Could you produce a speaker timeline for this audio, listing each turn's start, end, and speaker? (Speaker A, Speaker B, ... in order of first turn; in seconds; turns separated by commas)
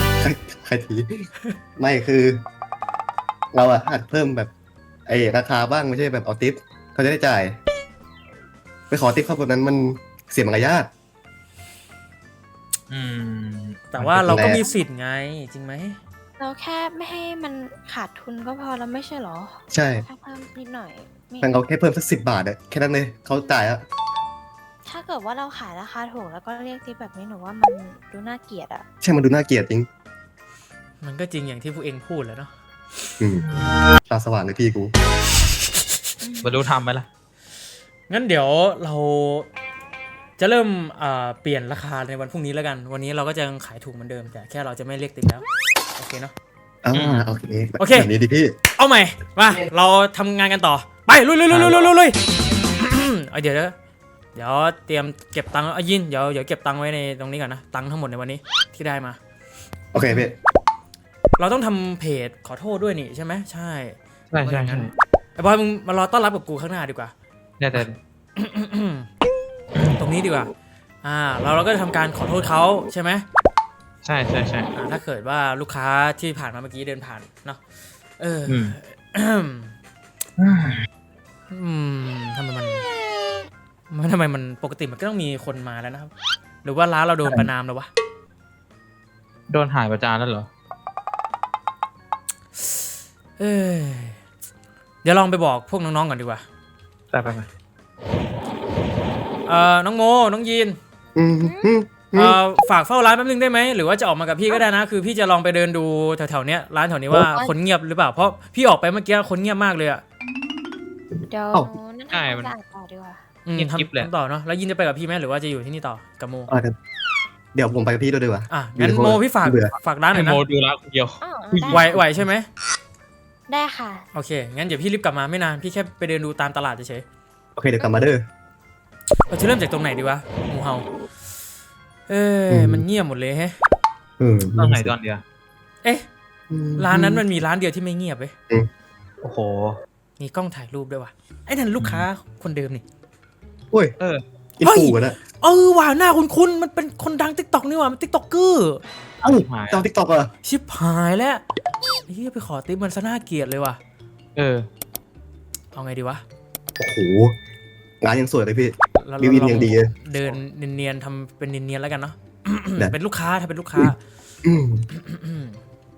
Speaker A: 0.2-2.4, Speaker A: 3.5-4.5, Speaker A: 5.1-7.6, Speaker A: 8.9-10.9, Speaker B: 12.9-14.4, Speaker C: 13.9-16.0, Speaker A: 14.2-14.6, Speaker D: 16.4-21.6, Speaker A: 19.7-20.0, Speaker A: 21.4-23.8, Speaker D: 24.8-28.8, Speaker A: 29.0-29.9, Speaker C: 31.0-32.5, Speaker A: 33.2-33.5, Speaker A: 34.1-34.9, Speaker D: 36.2-36.5, Speaker B: 36.4-37.1, Speaker C: 38.1-39.5, Speaker C: 40.4-45.5, Speaker C: 46.0-46.3, Speaker A: 46.8-48.5, Speaker B: 46.9-47.3, Speaker C: 47.8-48.1, Speaker C: 48.7-52.2, Speaker C: 52.8-53.7, Speaker C: 54.3-59.2, Speaker A: 59.9-60.3, Speaker C: 61.4-67.1, Speaker B: 64.3-64.9, Speaker B: 67.6-68.0, Speaker C: 67.7-69.1, Speaker C: 70.0-70.5, Speaker C: 71.0-73.2, Speaker B: 74.0-74.7, Speaker C: 74.7-77.6, Speaker C: 78.2-79.7, Speaker B: 78.5-78.7, Speaker B: 80.4-80.8, Speaker C: 81.5-82.8, Speaker C: 83.9-86.1, Speaker C: 86.6-87.9, Speaker B: 89.5-90.5, Speaker C: 92.6-94.2, Speaker C: 95.0-96.4, Speaker B: 97.1-97.5, Speaker C: 99.5-100.8, Speaker A: 101.2-102.4, Speaker D: 101.4-101.8, Speaker C: 102.2-110.0, Speaker D: 107.1-107.5, Speaker A: 111.2-111.7, Speaker D: 111.3-113.2, Speaker B: 112.1-112.5, Speaker C: 113.4-116.5, Speaker B: 113.6-114.1, Speaker A: 116.5-116.8, Speaker A: 117.5-119.7, Speaker C: 118.5-120.4, Speaker B: 120.1-122.2, Speaker D: 121.2-122.0, Speaker C: 121.7-122.5, Speaker D: 123.5-124.1, Speaker C: 124.1-127.0, Speaker A: 127.5-128.2, Speaker D: 127.8-128.0, Speaker C: 129.3-130.8, Speaker C: 132.1-133.6, Speaker A: 132.5-132.8, Speaker A: 134.2-134.9, Speaker B: 134.6-135.2, Speaker A: 136.5-137.2, Speaker C: 136.8-138.3, Speaker B: 139.2-139.8, Speaker C: 140.2-142.8, Speaker A: 144.6-145.2, Speaker C: 144.6-148.8, Speaker B: 149.2-149.8, Speaker A: 149.2-150.3, Speaker C: 150.4-151.4, Speaker C: 152.1-153.8, Speaker B: 154.3-154.6, Speaker C: 155.7-156.2, Speaker A: 156.8-157.3, Speaker A: 158.0-159.9, Speaker C: 158.9-164.0, Speaker A: 164.4-164.8, Speaker C: 164.9-165.6